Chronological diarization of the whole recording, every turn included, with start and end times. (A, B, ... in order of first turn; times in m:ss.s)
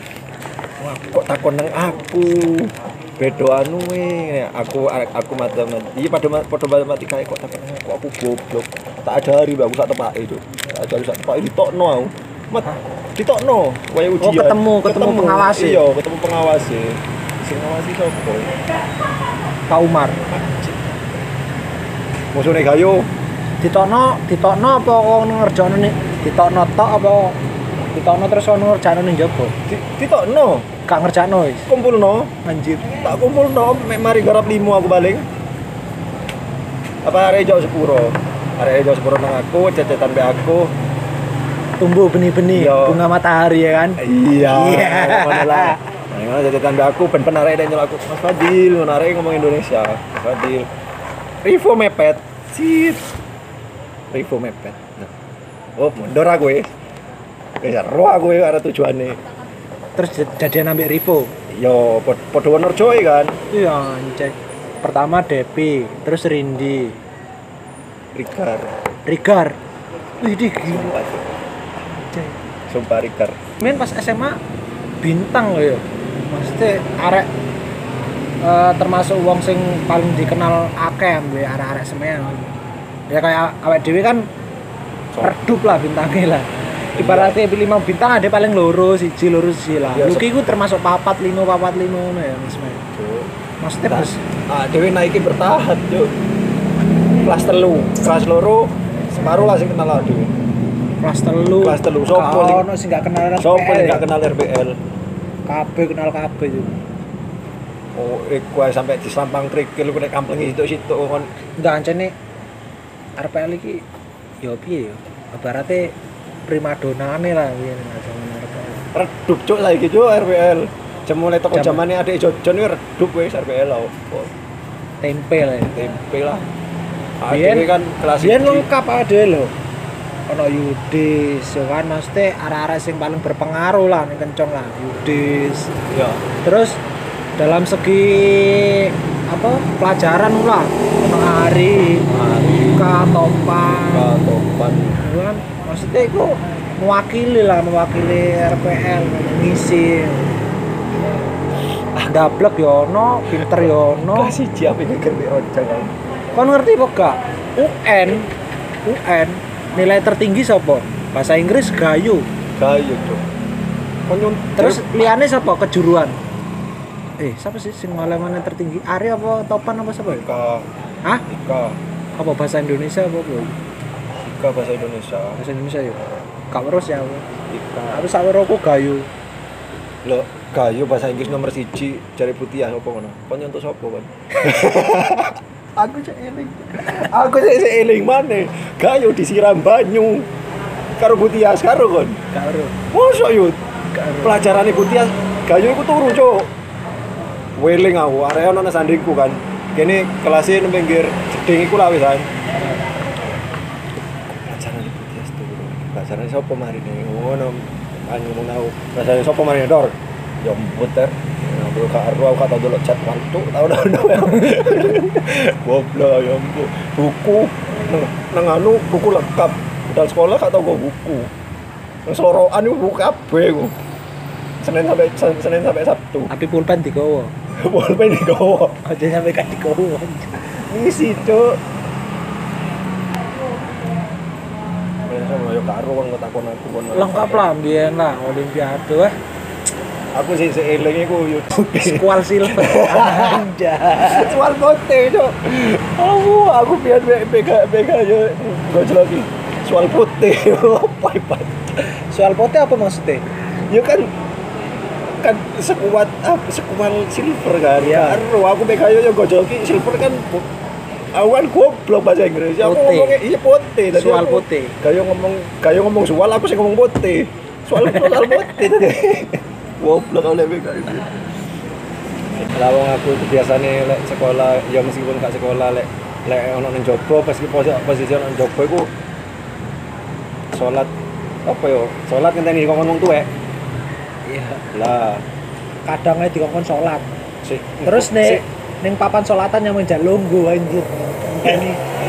0:01.1-0:18.6 A
0:14.2-0:15.8 B
0:19.7-0:20.3 B
0:20.3-0:21.0 A
0:22.3-0:23.1 A
0:23.6-0:27.4 B
0:27.9-0:29.6 B
0:29.7-0:30.7 A
0:30.9-0:31.7 B
0:31.7-0:32.3 A
0:32.4-0:33.0 B
0:33.0-0:35.3 A
0:37.0-0:40.7 A
0:41.8-0:45.8 B
0:42.5-0:43.0 A
0:44.0-0:50.7 A
0:51.4-0:53.1 A
0:54.1-0:55.1 A
0:55.8-0:56.7 A
0:57.6-0:59.2 A
1:00.0-1:01.3 B
1:01.5-1:03.4 A
1:03.5-1:07.0 B
1:08.2-1:08.8 A
1:09.1-1:09.6 B
1:10.2-1:11.0 B
1:10.6-1:11.4 A
1:11.8-1:12.4 B
1:12.7-1:13.4 A
1:13.6-1:14.4 B
1:15.0-1:17.3 B
1:18.4-1:22.6 B
1:23.1-1:24.3 B
1:25.1-1:25.4 A
1:25.2-1:32.8 B
1:27.0-1:27.4 A
1:29.9-1:30.3 A
1:32.9-1:33.3 A
1:33.6-1:34.2 B
1:33.9-1:36.2 A
1:37.2-1:40.3 A
1:41.0-1:44.0 B
1:41.6-1:42.7 A
1:43.4-1:44.8 A
1:45.5-1:46.8 B
1:48.0-1:51.3 A
1:51.6-1:52.2 B
1:53.2-1:53.8 B
1:54.4-1:56.0 B
1:56.5-1:58.9 B
1:58.9-2:04.3 A
2:01.5-2:01.8 B
2:05.0-2:05.8 B
2:05.7-2:06.5 A
2:07.2-2:08.7 A
2:07.3-2:09.5 B
2:10.3-2:15.7 B
2:15.9-2:16.2 A
2:16.4-2:16.8 B
2:17.4-2:22.1 B
2:22.1-2:22.9 A
2:22.7-2:24.1 B
2:23.9-2:25.0 A
2:25.0-2:30.4 B
2:32.0-2:34.4 B
2:33.3-2:36.0 A
2:36.4-2:38.3 B
2:38.8-2:42.3 B
2:42.6-2:43.2 A
2:44.1-2:44.9 A
2:44.6-2:46.2 B
2:47.2-2:50.3 B
2:50.1-2:50.7 A
2:51.3-2:51.8 A
2:52.2-2:53.6 B
2:54.2-2:55.4 A
2:55.4-2:56.0 B
2:56.5-2:57.3 B
2:57.5-2:58.1 A
2:57.9-2:59.1 B
3:00.0-3:10.3 A
3:11.0-3:12.2 A
3:12.3-3:12.8 B
3:12.9-3:13.6 A
3:13.9-3:14.4 B
3:14.2-3:16.5 A
3:17.6-3:22.3 A
3:24.5-3:41.3 A
3:42.1-3:43.8 A
3:44.6-3:46.3 A
3:46.3-3:47.3 B
3:47.5-3:48.8 A
3:48.8-3:50.5 B
3:50.6-3:51.6 A
3:55.0-3:57.4 A
3:56.9-3:59.2 B
4:00.1-4:11.8 A
4:01.6-4:04.4 B
4:12.1-4:13.2 B
4:13.7-4:14.2 A
4:15.1-4:20.5 A
4:17.8-4:18.2 B
4:21.1-4:31.1 A
4:22.6-4:23.2 B
4:23.9-4:24.8 B
4:27.8-4:28.7 B
4:32.4-4:38.9 A
4:40.5-4:40.9 A
4:41.4-4:43.3 A
4:44.3-4:44.7 B
4:44.7-4:45.2 A
4:45.9-4:47.1 B
4:47.4-4:48.4 A
4:47.9-4:51.8 B